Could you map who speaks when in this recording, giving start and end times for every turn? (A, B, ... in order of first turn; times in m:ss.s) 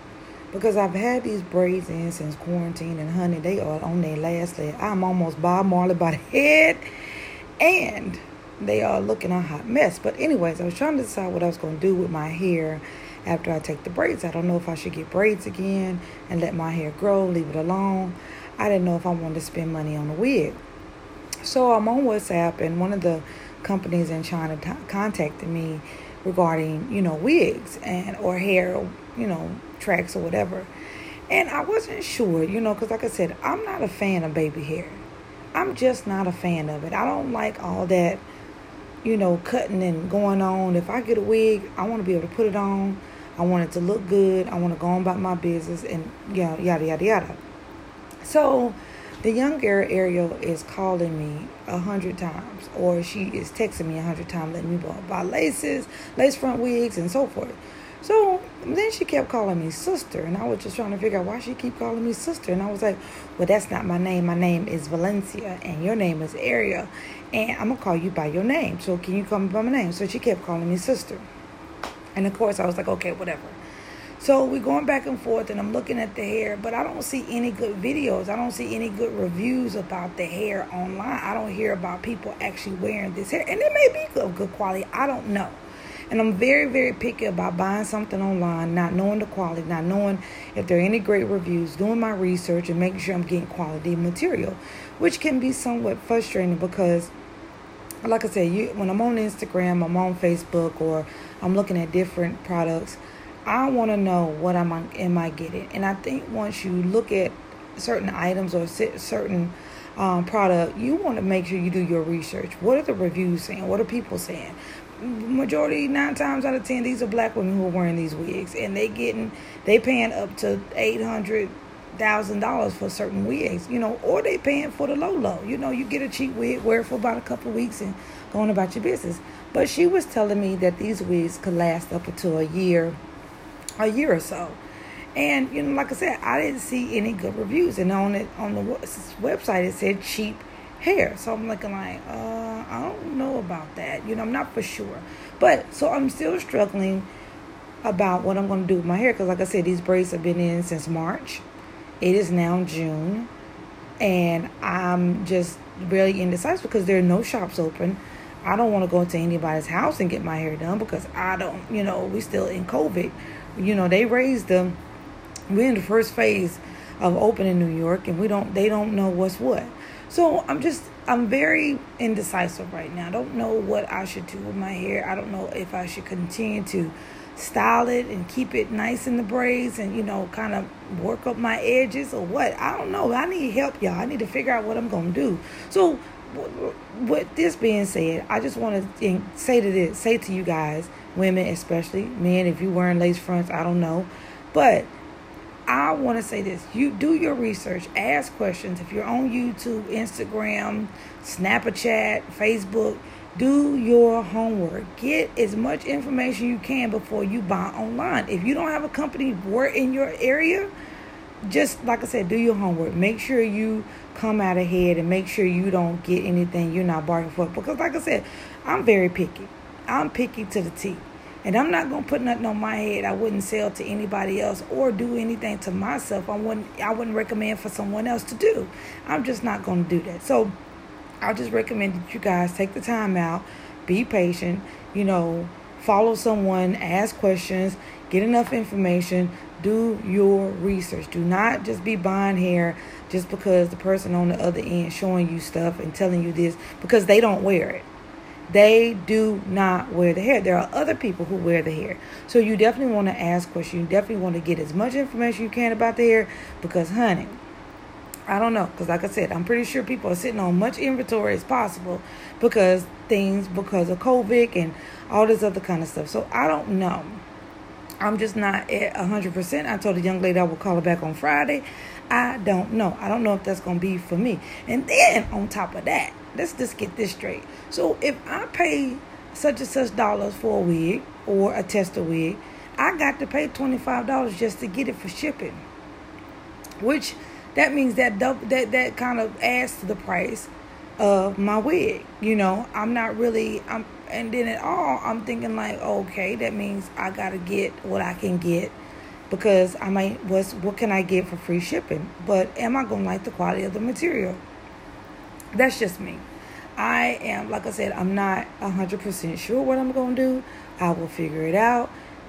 0:00.5-0:06.8 A
0:07.6-0:20.6 A
0:21.4-0:30.7 A
0:31.3-0:35.0 A
0:35.5-0:38.2 A
0:39.0-0:47.4 A
0:48.2-1:11.2 A
1:12.1-1:13.6 A
1:14.2-1:25.6 A
1:26.1-1:37.1 A
1:38.0-2:13.0 A
2:13.8-2:14.6 A
2:15.1-2:27.1 A
2:27.8-2:31.4 A
2:32.0-2:33.3 A
2:34.0-2:44.8 A
2:45.5-3:14.9 A
3:15.7-3:30.7 A
3:31.4-3:50.6 A
3:51.2-4:07.8 A
4:08.5-4:17.4 A
4:18.3-4:27.2 A
4:28.0-4:45.6 A
4:46.8-4:58.8 A
4:59.3-5:04.4 A
5:05.5-5:06.2 A
5:06.8-5:11.9 A